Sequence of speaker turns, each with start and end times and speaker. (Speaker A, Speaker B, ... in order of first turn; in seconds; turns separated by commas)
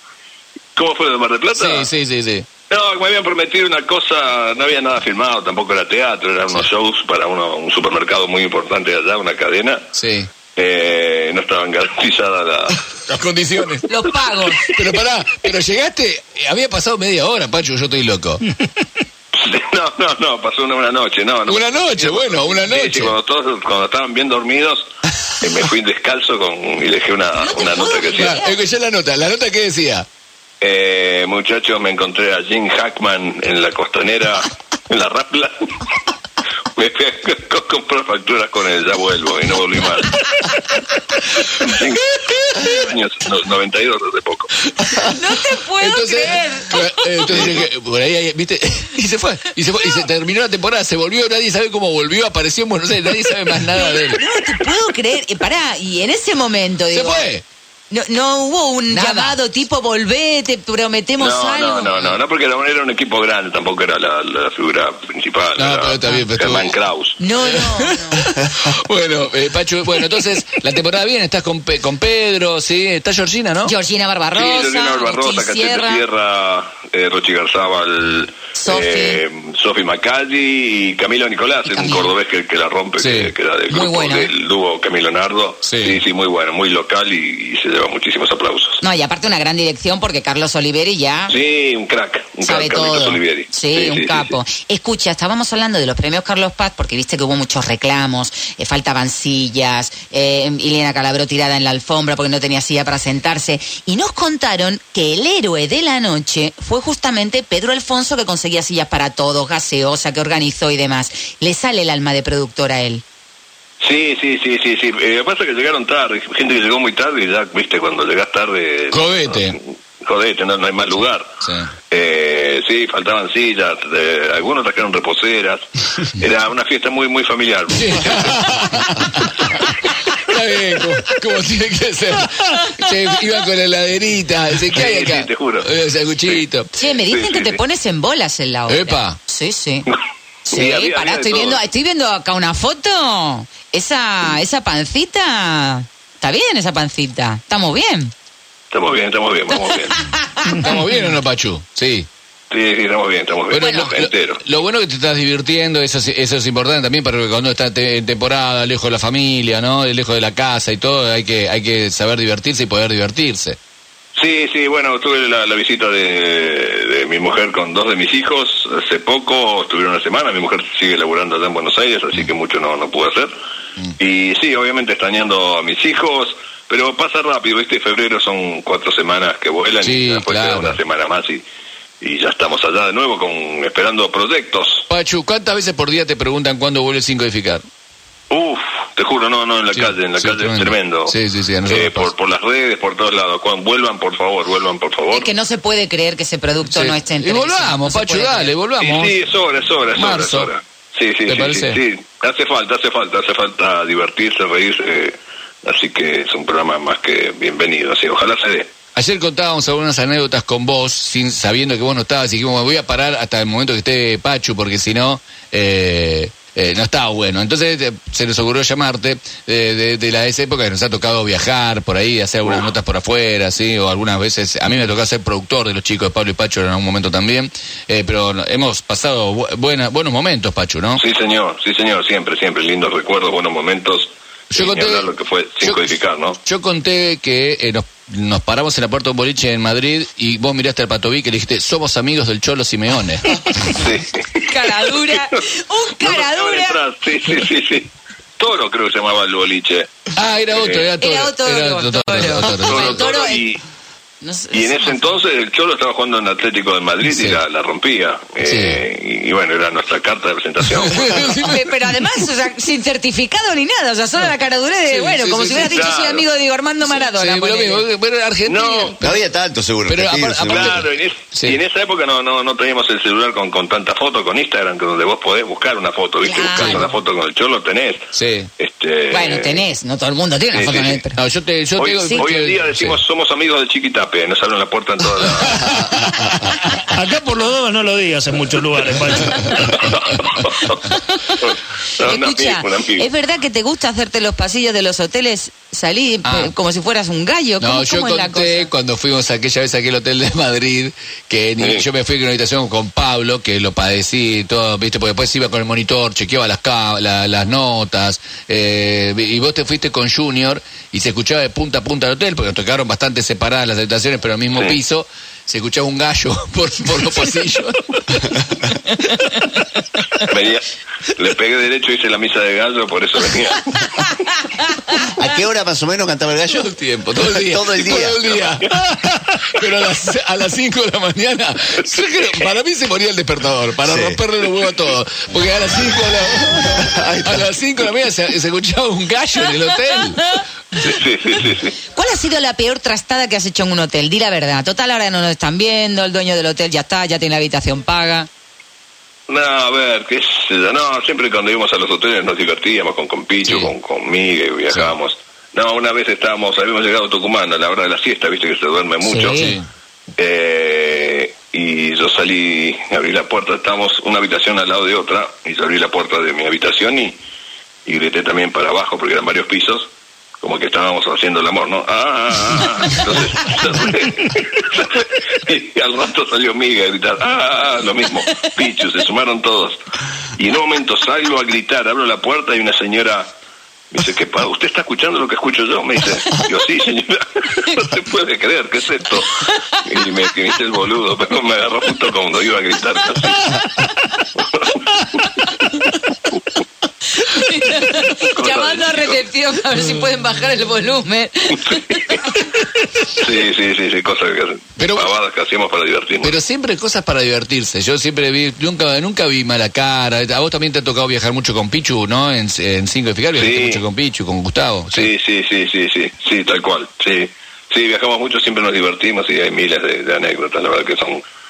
Speaker A: 0.8-1.9, Speaker B: 1.5-2.5, Speaker A: 2.7-9.9, Speaker B: 9.9-10.3, Speaker A: 10.6-12.8, Speaker B: 13.1-13.9, Speaker C: 13.9-14.8, Speaker B: 14.6-18.5, Speaker A: 19.3-24.9, Speaker B: 21.5-23.1, Speaker A: 25.4-28.4, Speaker C: 27.6-28.3, Speaker B: 28.1-30.1, Speaker A: 30.6-35.6, Speaker A: 36.8-40.3, Speaker A: 41.4-44.5, Speaker B: 42.2-42.6, Speaker B: 44.8-45.1, Speaker C: 45.0-47.5, Speaker B: 45.8-54.2, Speaker A: 47.3-47.6, Speaker C: 53.7-57.3, Speaker B: 56.9-57.4, Speaker C: 57.9-61.9, Speaker B: 58.9-59.4, Speaker A: 61.2-67.2, Speaker B: 65.6-66.7, Speaker C: 67.2-68.3, Speaker B: 67.4-73.7, Speaker C: 73.6-76.0, Speaker A: 74.3-88.8, Speaker C: 78.5-79.2, Speaker C: 81.6-82.1, Speaker B: 83.0-83.3, Speaker C: 83.7-84.3, Speaker B: 85.6-86.0, Speaker C: 88.8-91.4, Speaker A: 91.3-94.3, Speaker C: 92.4-113.0, Speaker A: 113.8-121.3, Speaker B: 118.9-119.6, Speaker B: 121.4-121.7, Speaker A: 121.9-128.6, Speaker B: 127.7-136.7, Speaker A: 134.7-135.7, Speaker A: 136.2-137.6, Speaker C: 136.8-139.9, Speaker B: 138.7-139.2, Speaker C: 140.5-148.1, Speaker A: 140.5-141.6, Speaker A: 148.7-150.0, Speaker C: 150.0-150.6, Speaker B: 150.4-152.1, Speaker A: 152.5-154.4, Speaker B: 153.5-163.6, Speaker C: 153.6-153.9, Speaker A: 164.2-173.3, Speaker A: 174.0-181.4, Speaker B: 179.8-180.8, Speaker A: 182.0-184.9, Speaker B: 184.9-187.7, Speaker A: 188.3-191.1, Speaker B: 189.7-192.1, Speaker A: 191.7-195.3, Speaker C: 195.1-198.5, Speaker B: 196.7-199.1, Speaker A: 198.8-208.7, Speaker B: 199.9-200.5, Speaker B: 201.3-201.8, Speaker B: 208.9-231.0, Speaker A: 222.4-222.7, Speaker A: 230.9-236.4, Speaker B: 234.5-235.1, Speaker B: 236.4-243.7, Speaker A: 243.7-245.4, Speaker C: 244.4-246.8, Speaker A: 246.0-249.9, Speaker B: 250.2-253.0, Speaker A: 250.5-250.9, Speaker C: 251.0-253.4, Speaker A: 252.6-253.6, Speaker C: 254.2-255.0, Speaker A: 254.5-261.4, Speaker B: 257.0-257.4, Speaker B: 258.4-258.8, Speaker B: 260.8-261.7, Speaker C: 261.3-267.9, Speaker B: 264.9-265.8, Speaker A: 265.5-266.2, Speaker B: 266.8-269.1, Speaker A: 268.4-269.0, Speaker D: 269.0-270.9, Speaker B: 269.9-271.6, Speaker A: 270.4-279.6, Speaker C: 276.2-276.9, Speaker B: 276.5-276.8, Speaker B: 278.1-278.5, Speaker C: 279.1-281.2, Speaker A: 280.5-281.0, Speaker B: 281.1-283.0, Speaker A: 281.8-285.7, Speaker B: 285.5-286.8, Speaker E: 286.9-289.6, Speaker A: 289.6-290.9, Speaker A: 291.4-293.1, Speaker C: 292.0-298.7, Speaker B: 296.2-296.5, Speaker B: 297.6-318.4, Speaker A: 301.6-301.9, Speaker A: 320.2-323.9, Speaker D: 325.0-328.2, Speaker B: 326.5-340.9, Speaker A: 328.2-328.6, Speaker D: 333.9-334.2, Speaker D: 336.7-337.5, Speaker C: 340.2-340.4, Speaker A: 340.8-341.8, Speaker C: 341.9-348.3, Speaker A: 349.3-359.5, Speaker B: 353.4-353.7, Speaker C: 359.0-359.6, Speaker B: 359.4-359.6, Speaker A: 360.2-367.2, Speaker A: 367.9-369.9, Speaker A: 370.4-379.8, Speaker A: 380.4-383.3, Speaker A: 383.9-393.5, Speaker A: 394.4-395.1, Speaker C: 395.4-396.0, Speaker C: 397.1-402.7, Speaker A: 398.1-399.2, Speaker A: 401.5-402.3, Speaker A: 403.1-406.3, Speaker B: 404.8-405.1, Speaker B: 406.2-415.1, Speaker A: 413.3-413.8, Speaker A: 414.9-421.2